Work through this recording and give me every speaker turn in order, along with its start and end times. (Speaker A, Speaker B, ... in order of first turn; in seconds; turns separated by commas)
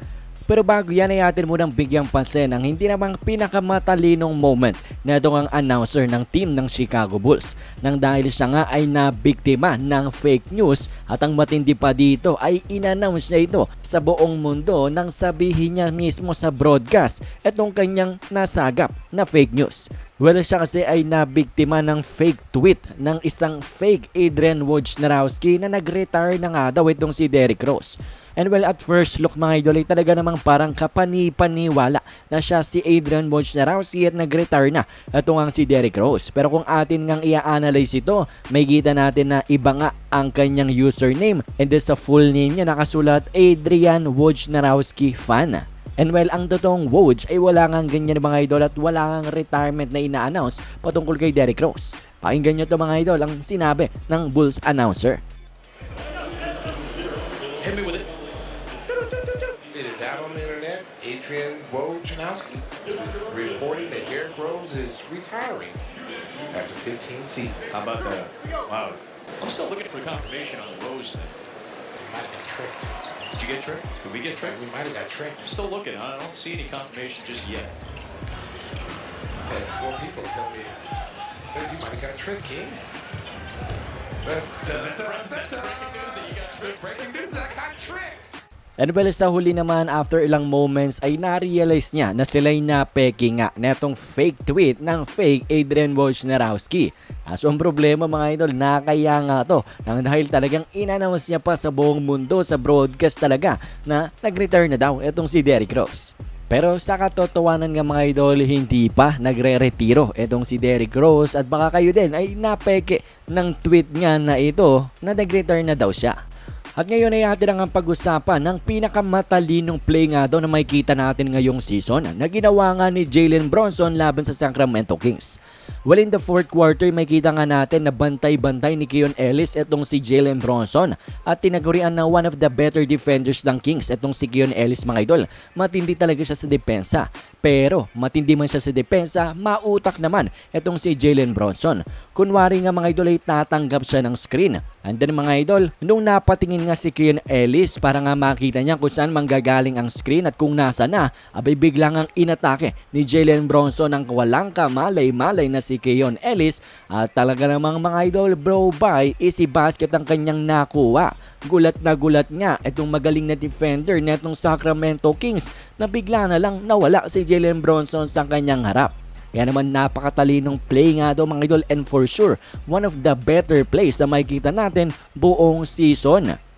Speaker A: 0.5-55.2, Speaker B: 57.6-58.1, Speaker B: 58.9-59.6, Speaker C: 59.7-65.8, Speaker C: 66.5-68.0, Speaker B: 67.7-71.3, Speaker C: 71.9-73.0, Speaker B: 73.3-74.6, Speaker C: 74.2-75.5, Speaker B: 75.4-77.8, Speaker C: 79.4-80.8, Speaker C: 81.5-82.8, Speaker C: 84.2-88.3, Speaker B: 84.6-86.7, Speaker A: 88.8-116.2, Speaker A: 116.8-125.4, Speaker A: 125.9-176.4